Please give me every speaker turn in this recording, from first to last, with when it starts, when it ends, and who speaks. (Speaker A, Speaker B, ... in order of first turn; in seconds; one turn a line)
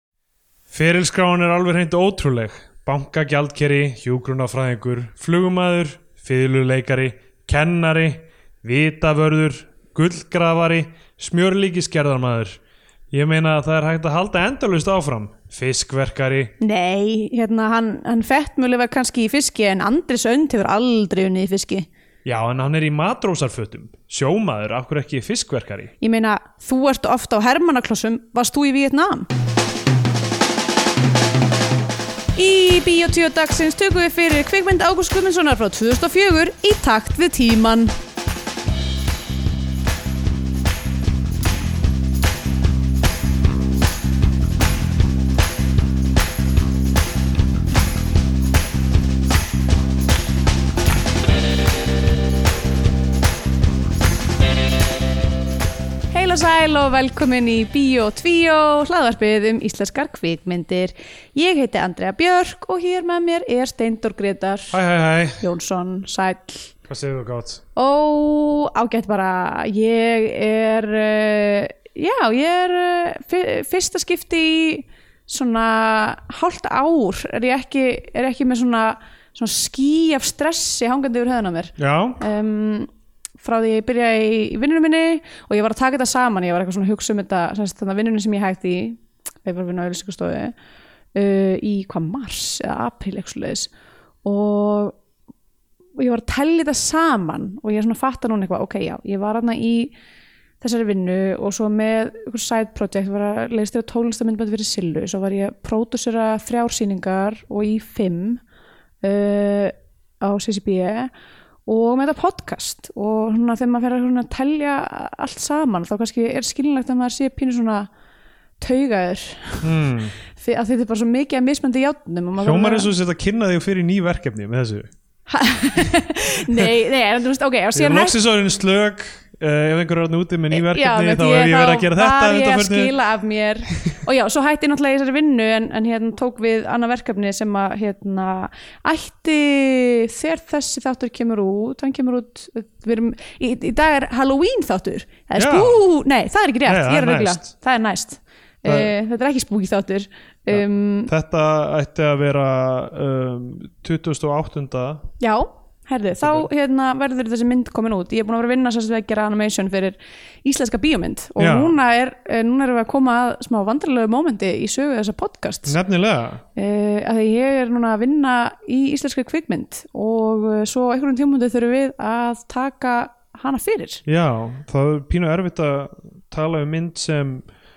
Speaker A: 0.7-12.6
Speaker A: 13.1-16.5
Speaker B: 16.6-21.9
Speaker A: 22.2-25.9
Speaker B: 26.0-29.3
Speaker B: 32.4-37.9
Speaker B: 56.1-64.8
Speaker A: 64.7-65.4
Speaker B: 65.4-66.7
Speaker A: 66.9-67.6
Speaker B: 67.8-82.9
Speaker A: 81.8-82.2
Speaker B: 83.4-90.5
Speaker B: 91.1-93.7
Speaker B: 94.2-95.0
Speaker B: 96.0-99.9
Speaker B: 100.6-108.4
Speaker B: 109.0-111.1
Speaker B: 111.7-117.9
Speaker B: 118.6-119.7
Speaker A: 119.6-120.1
Speaker B: 120.3-122.9
Speaker A: 122.4-124.9
Speaker B: 125.3-128.2
Speaker A: 127.7-132.9
Speaker B: 130.5-151.1
Speaker A: 145.4-145.8
Speaker A: 146.7-147.5
Speaker A: 148.6-148.9
Speaker A: 150.5-155.1
Speaker B: 155.2-165.8
Speaker A: 156.2-156.5
Speaker A: 161.4-161.8
Speaker A: 165.7-166.4
Speaker B: 166.6-174.0
Speaker A: 174.1-177.4